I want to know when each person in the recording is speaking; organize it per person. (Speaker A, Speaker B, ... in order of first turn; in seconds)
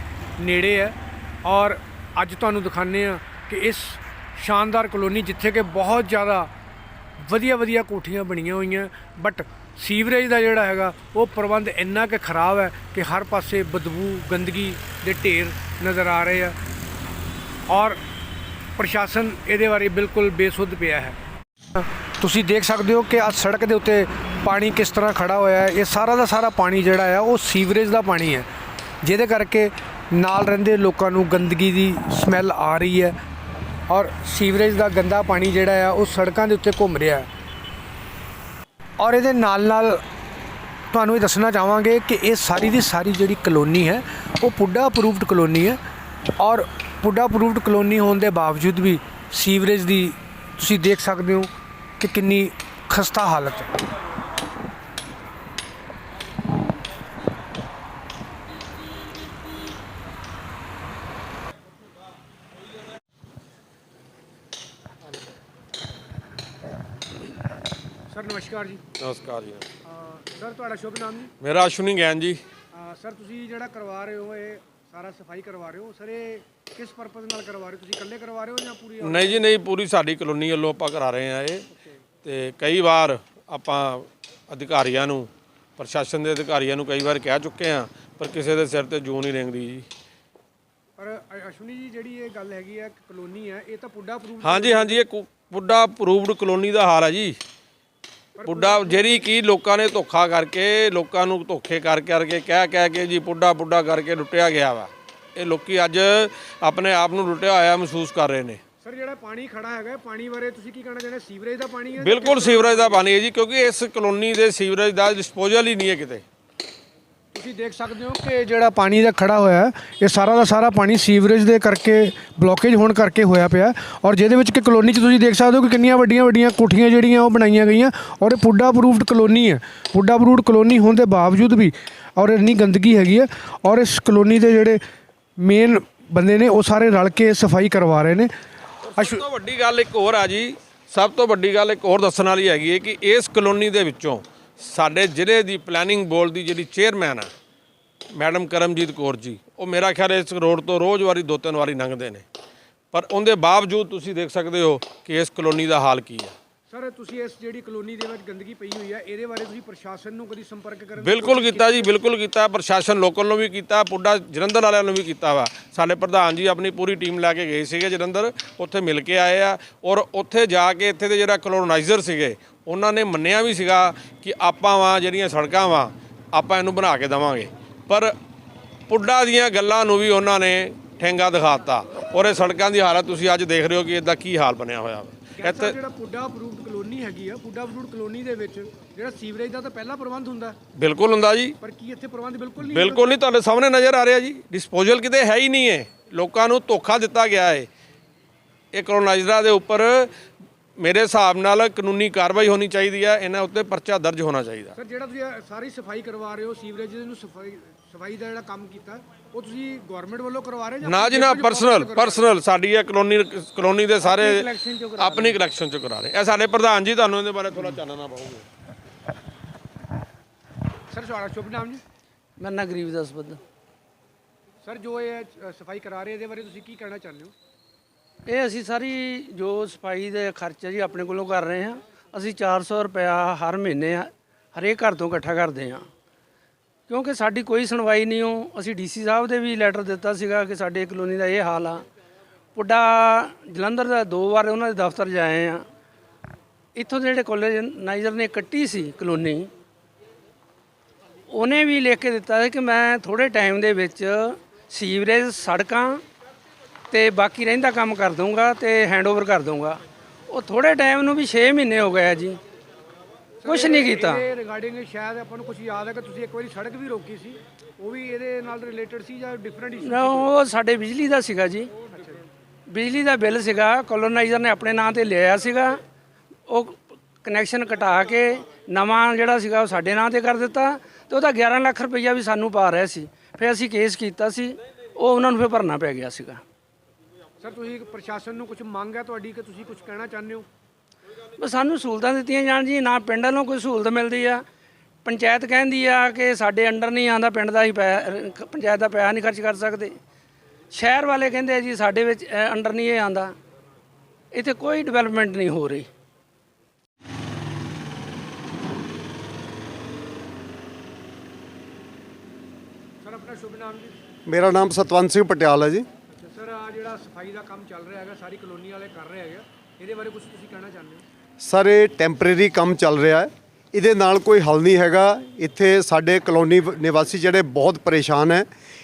Speaker A: 0.4-6.5, 7.2-16.6, 17.7-18.0, 18.8-21.2, 21.8-28.5, 29.0-33.2, 33.9-37.3, 39.0-40.0, 40.9-45.8, 46.4-53.8, 68.1-68.8, 69.8-71.3, 72.7-79.5, 91.0-95.0, 98.4-99.3, 108.8-113.0, 117.3-134.8, 135.4-138.3, 139.0-139.2, 156.7-161.9, 185.4-190.6, 191.6-193.1, 204.8-212.3, 220.9-221.8, 224.6-227.3, 263.4-270.3, 287.4-290.5, 313.0-313.9, 316.1-321.1
Speaker B: 69.0-69.7, 71.4-72.4, 79.0-81.7, 82.2-89.9, 94.4-97.4, 98.4-108.6, 112.0-116.2, 138.8-147.3, 148.1-152.2, 152.9-156.3, 161.0-178.2, 178.9-185.8, 190.8-191.6, 192.6-197.7, 198.7-200.1, 200.8-204.7, 210.8-218.4
Speaker C: 214.0-215.4, 222.4-223.4, 228.3-235.9, 236.9-241.9, 242.6-245.6, 246.8-249.5, 251.3-256.0, 256.9-262.4, 263.4-264.3, 269.8-271.7, 272.7-275.8, 276.5-286.4, 291.4-294.4, 295.1-299.9, 300.7-303.3, 304.3-305.9
Speaker D: 314.3-315.9, 321.4-328.5